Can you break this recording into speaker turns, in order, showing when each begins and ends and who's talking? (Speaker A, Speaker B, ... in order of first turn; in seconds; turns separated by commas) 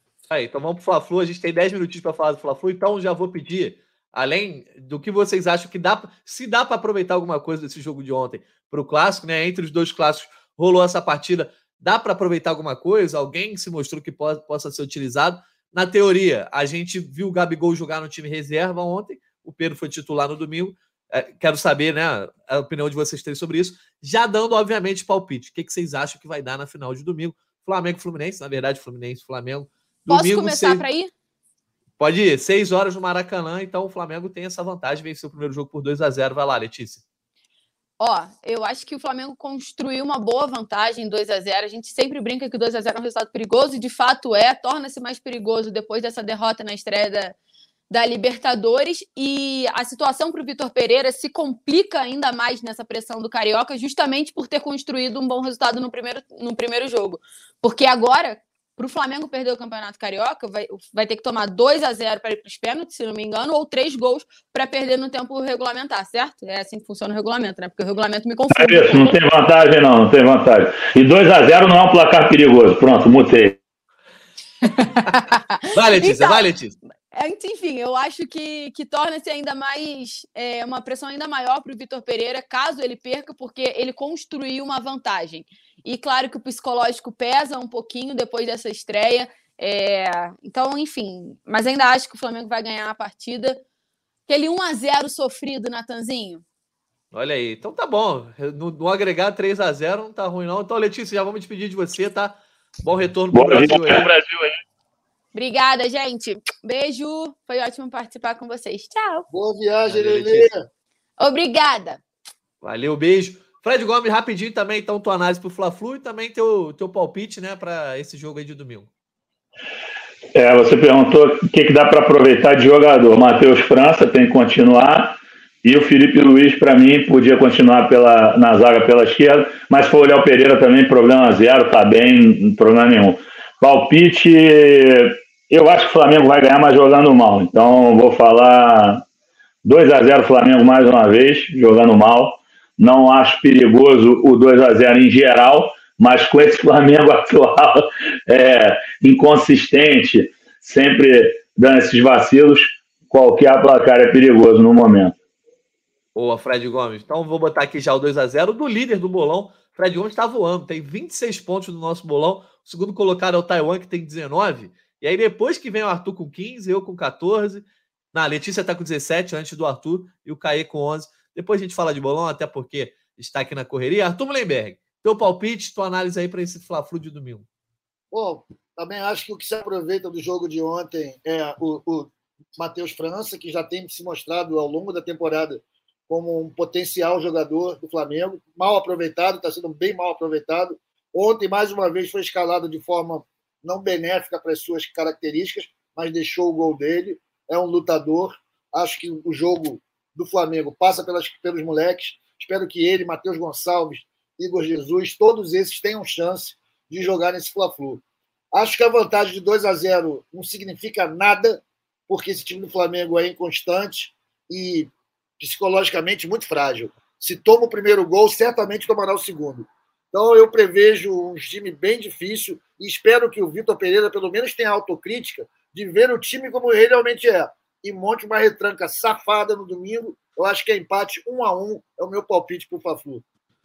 Speaker A: 0.3-30.8, Speaker B: 30.1-31.1, Speaker A: 32.0-37.0, Speaker B: 38.0-47.4, Speaker B: 47.9-69.2, Speaker C: 68.5-73.6, Speaker B: 74.8-76.4, Speaker A: 75.7-76.8, Speaker B: 77.1-93.6, Speaker B: 94.3-96.4, Speaker A: 97.1-104.1, Speaker C: 103.3-104.6, Speaker B: 105.3-109.2, Speaker D: 109.3-110.6, Speaker A: 109.8-110.5, Speaker B: 111.2-112.0, Speaker A: 112.6-118.9, Speaker C: 120.3-139.0, Speaker C: 139.6-155.1, Speaker A: 156.1-177.4, Speaker D: 178.1-233.2